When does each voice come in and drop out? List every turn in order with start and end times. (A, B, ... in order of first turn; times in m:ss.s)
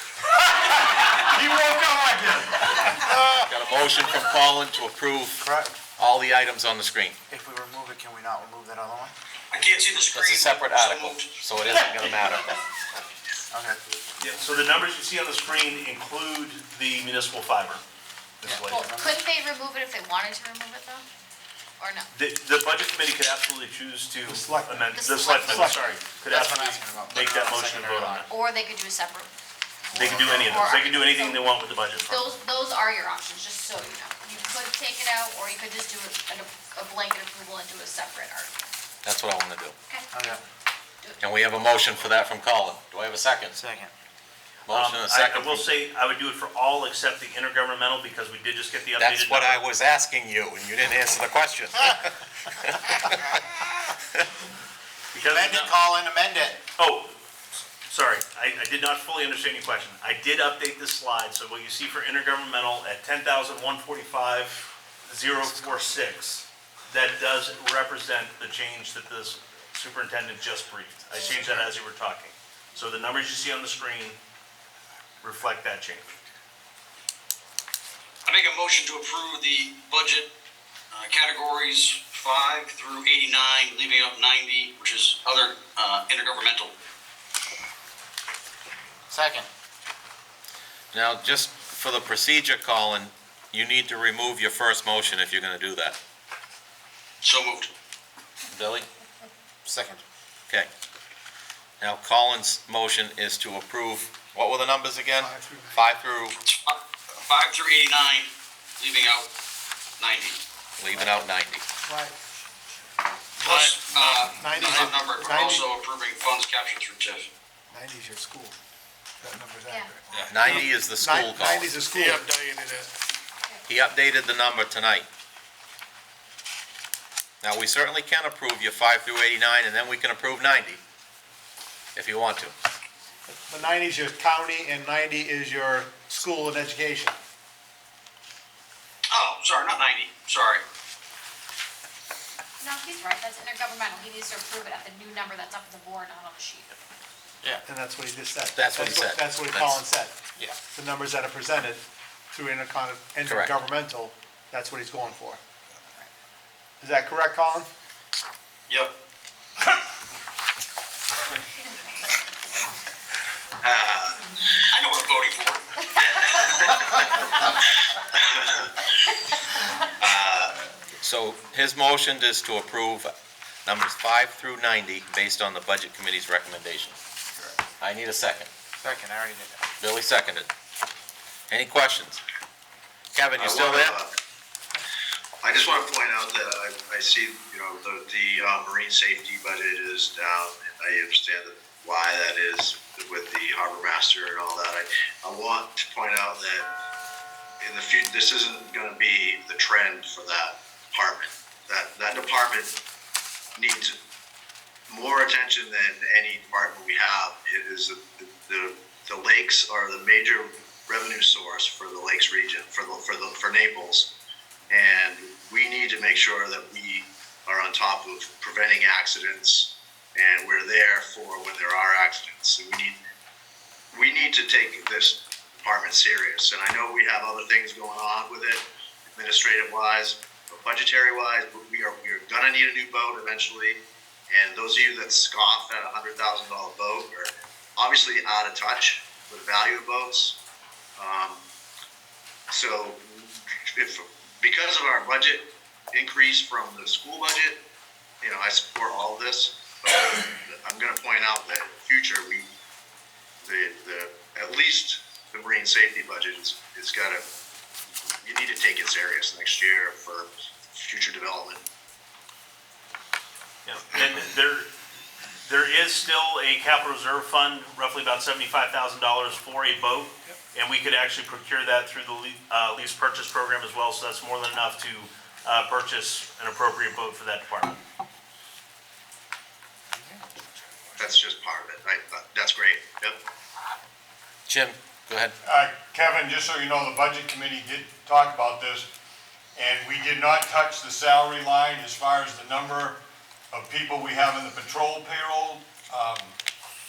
0:00.6-0:03.2 A
0:03.5-0:05.4 B
0:05.4-0:05.8 C
0:06.0-0:07.2 B
0:07.3-0:09.1 C
0:09.5-0:11.4 D
0:09.6-0:10.1 C
0:10.1-0:12.5 B
0:13.5-0:13.8 C
0:14.2-0:17.8 E
0:18.4-0:18.8 E
0:18.4-0:19.2 C
0:18.7-0:21.0 F
0:21.8-0:22.1 F
0:22.1-0:28.3 E
0:24.2-0:24.9 G
0:24.9-0:25.9 F
0:25.4-0:25.8 G
0:26.3-0:28.3 C
0:28.3-0:29.3 F
0:29.8-0:31.5 F
0:29.9-0:32.3 E
0:29.9-0:30.6 C
0:32.0-0:38.5 F
0:39.0-0:39.7 B
0:39.9-0:40.4 F
0:40.1-0:40.4 C
0:41.2-0:43.6 B
0:43.5-0:43.9 C
0:44.6-0:45.6 B
0:44.7-0:49.6 E
0:49.0-0:53.4 B
0:55.1-0:55.8 E
0:55.1-0:56.6 C
0:56.8-0:57.1 E
0:57.9-1:14.2 E
1:11.2-1:11.6 F
1:15.2-1:16.2 E
1:18.2-1:20.3 D
1:20.9-1:26.7 D
1:29.1-1:29.5 C
1:30.9-1:36.0 B
1:37.2-1:37.7 D
1:38.5-1:38.9 B
1:39.6-1:40.0 C
1:41.8-1:46.4 B
1:45.2-1:45.8 G
1:46.4-1:49.3 D
1:50.0-1:50.4 D
1:50.8-1:51.6 B
1:51.8-1:52.1 G
1:53.4-1:55.7 G
1:53.4-1:57.3 D
1:57.7-1:58.6 G
1:59.2-2:02.6 G
1:59.7-2:00.0 F
2:00.1-2:01.7 B
2:03.7-2:05.0 B
2:07.4-2:10.8 B
2:12.0-2:12.5 B
2:13.3-2:17.2 G
2:19.1-2:20.6 D
2:22.6-2:26.8 F
2:27.6-2:30.2 G
2:28.5-2:29.8 B
2:30.7-2:35.4 G
2:33.2-2:33.6 B
2:36.8-2:37.7 G
2:38.7-2:38.9 D
2:43.6-2:44.2 H
2:44.7-2:45.7 D
2:46.2-2:46.6 D
2:50.0-2:50.6 H
2:51.0-2:53.1 B
2:53.6-2:57.0 B
2:57.8-2:58.5 B
2:58.8-2:59.6 C
2:59.8-3:00.5 B
3:01.5-3:02.2 B
3:03.1-3:04.0 B
3:03.4-3:04.1 H
3:05.4-3:16.7 H
3:17.6-3:22.7 H
3:23.5-3:23.9 H
3:24.9-3:34.1 H
3:34.7-3:43.0 H
3:43.9-4:00.4 H
4:01.0-4:01.4 H
4:02.5-4:07.6 H
4:08.2-4:12.4 H
4:13.4-4:17.2 H
4:18.2-4:21.6 H
4:23.6-4:24.7 E
4:25.4-4:37.8 E
4:39.9-4:40.2 C
4:41.0-4:43.2 H
4:44.5-4:45.4 B
4:45.4-4:48.9 A
4:49.6-4:53.0 A
4:53.5-4:56.3 A